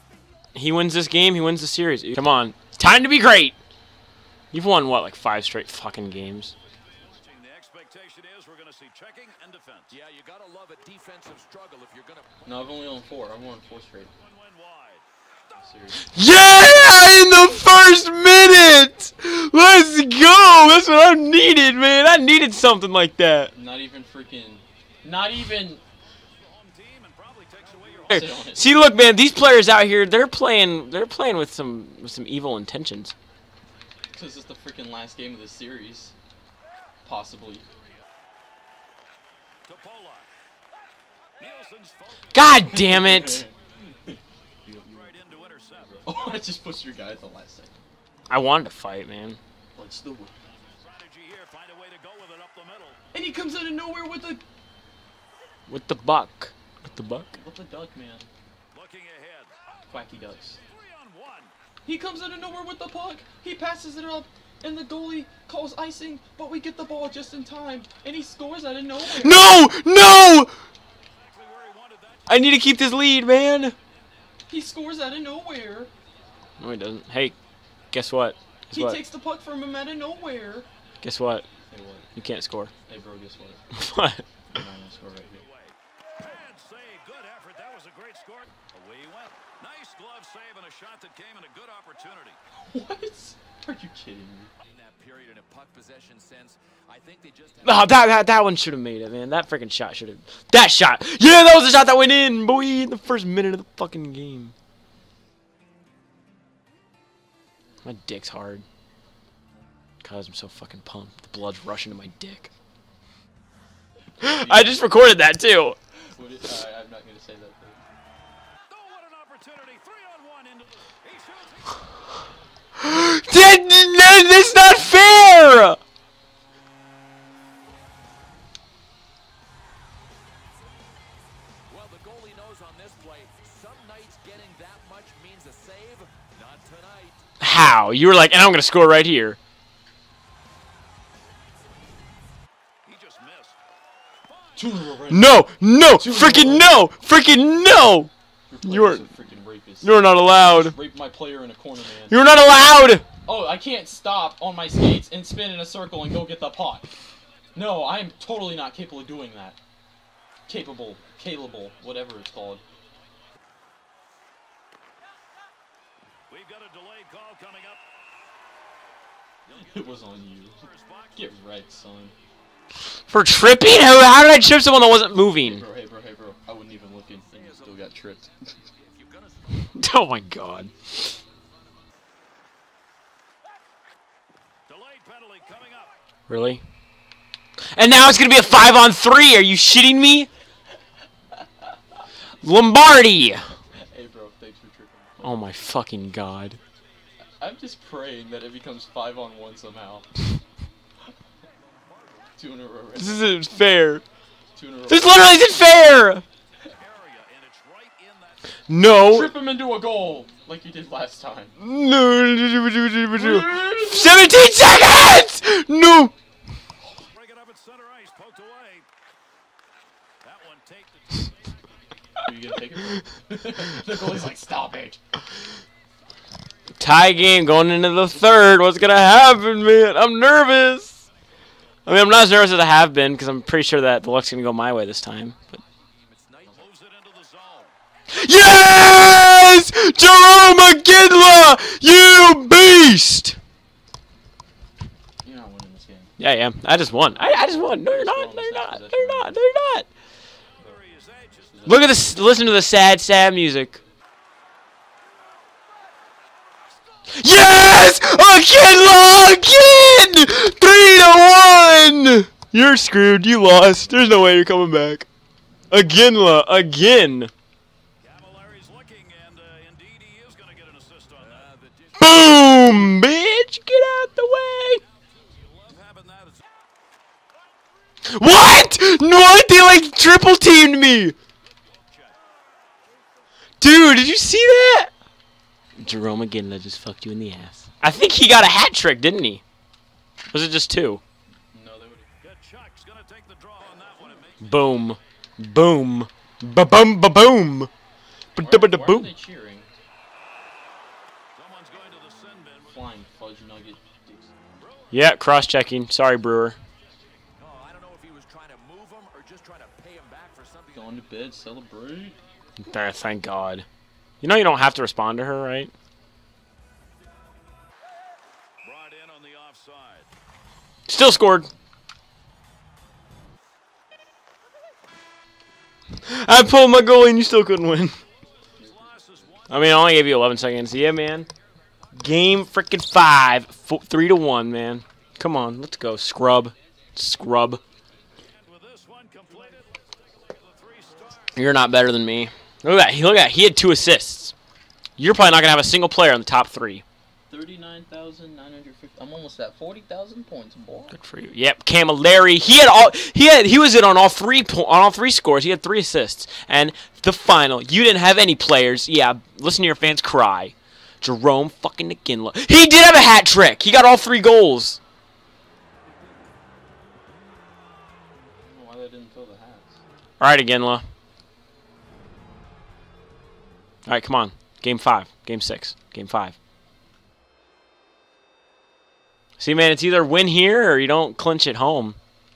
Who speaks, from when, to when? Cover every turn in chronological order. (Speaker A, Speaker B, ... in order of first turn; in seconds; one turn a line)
Speaker A: 0.5-3.5
Speaker A: 4.5-6.5
Speaker B: 7.2-9.9
Speaker C: 9.9-12.3
Speaker D: 12.4-14.1
Speaker B: 14.5-15.0
Speaker D: 15.5-16.1
Speaker A: 16.1-23.5
Speaker D: 23.5-25.8
Speaker B: 26.4-28.1
Speaker D: 28.1-28.6
Speaker A: 28.1-33.1
Speaker D: 34.1-36.1
Speaker D: 37.0-37.6
Speaker B: 39.7-40.2
Speaker B: 41.4-42.0
Speaker A: 42.3-43.4
Speaker D: 42.7-43.5
Speaker B: 44.9-46.0
Speaker D: 46.0-47.7
Speaker A: 48.3-49.4
Speaker D: 49.7-50.3
Speaker B: 50.9-53.0
Speaker D: 53.1-54.4
Speaker A: 55.7-57.3
Speaker D: 57.3-58.3
Speaker B: 58.7-59.7
Speaker D: 59.9-60.6
Speaker B: 60.7-61.5
Speaker D: 61.8-69.5
Speaker A: 69.2-70.5
Speaker B: 71.3-72.2
Speaker A: 72.3-73.8
Speaker D: 74.5-75.9
Speaker A: 76.6-77.3
Speaker A: 77.9-79.0
Speaker D: 78.7-80.7
Speaker A: 81.0-81.4
Speaker D: 81.7-82.1
Speaker A: 82.1-82.7
Speaker D: 82.9-83.6
Speaker A: 83.7-84.2
Speaker D: 84.5-85.5
Speaker B: 86.2-92.4
Speaker D: 92.6-94.5
Speaker C: 94.6-98.1
Speaker A: 97.6-104.5
Speaker A: 107.8-108.6
Speaker A: 110.0-112.5
Speaker A: 114.2-115.8
Speaker D: 114.3-114.8
Speaker D: 116.1-117.8
Speaker B: 118.7-121.7
Speaker A: 122.8-125.8
Speaker C: 131.7-137.2
Speaker A: 137.4-139.4
Speaker B: 142.8-143.6
Speaker D: 144.6-146.7
Speaker A: 145.1-148.1
Speaker D: 148.5-152.2
Speaker A: 148.6-149.1
Speaker A: 149.8-150.8
Speaker A: 152.1-153.0
Speaker D: 153.2-156.9
Speaker D: 157.5-159.6
Speaker D: 160.5-162.6
Speaker B: 166.3-167.8
Speaker D: 169.7-170.6
Speaker D: 171.1-172.1
Speaker A: 173.1-175.6
Speaker D: 175.4-178.5
Speaker A: 179.6-180.9
Speaker B: 184.7-185.9
Speaker A: 186.3-186.6
Speaker A: 187.7-190.3
Speaker A: 192.4-193.4
Speaker D: 193.9-195.4
Speaker A: 195.2-196.6
Speaker D: 197.4-200.1
Speaker D: 202.4-203.3
Speaker A: 203.0-204.0
Speaker D: 204.5-205.5
Speaker A: 204.9-206.2
Speaker B: 206.8-208.3
Speaker A: 208.7-209.3
Speaker D: 209.1-211.6
Speaker A: 211.6-216.1
Speaker D: 213.1-214.3
Speaker B: 217.2-218.8
Speaker B: 220.2-221.3
Speaker D: 222.2-225.0
Speaker A: 226.8-231.0
Speaker A: 231.8-235.6
Speaker C: 235.9-236.7
Speaker B: 236.6-237.7
Speaker A: 238.1-243.4
Speaker D: 245.2-246.1
Speaker A: 246.2-249.8
Speaker D: 247.0-249.4
Speaker B: 250.9-251.3
Speaker D: 251.4-252.1
Speaker A: 251.7-253.8
Speaker A: 257.1-265.1
Speaker A: 265.7-267.3
Speaker B: 268.0-271.5
Speaker C: 271.2-272.6
Speaker A: 272.0-274.8
Speaker B: 275.6-276.4
Speaker A: 278.1-281.1
Speaker A: 283.6-284.9
Speaker A: 285.8-289.4
Speaker A: 290.3-291.0
Speaker D: 291.5-292.1
Speaker B: 292.2-294.4
Speaker A: 294.4-297.7
Speaker A: 298.3-299.1
Speaker D: 298.4-299.7
Speaker B: 301.4-302.7
Speaker D: 302.6-304.3
Speaker A: 304.9-306.6
Speaker C: 307.4-311.0
Speaker D: 310.7-312.2
Speaker A: 312.6-313.6
Speaker A: 314.2-315.7
Speaker B: 318.6-320.1
Speaker A: 320.9-321.5
Speaker A: 326.0-327.9
Speaker D: 328.6-329.3
Speaker B: 328.9-329.4
Speaker A: 329.5-331.3
Speaker A: 331.9-337.6
Speaker B: 338.4-339.6
Speaker B: 340.4-341.2
Speaker A: 341.3-344.3
Speaker A: 345.0-346.8
Speaker D: 347.3-350.9
Speaker A: 350.9-364.8
Speaker D: 368.4-369.8
Speaker A: 370.2-370.8
Speaker A: 373.9-376.3
Speaker A: 379.4-382.0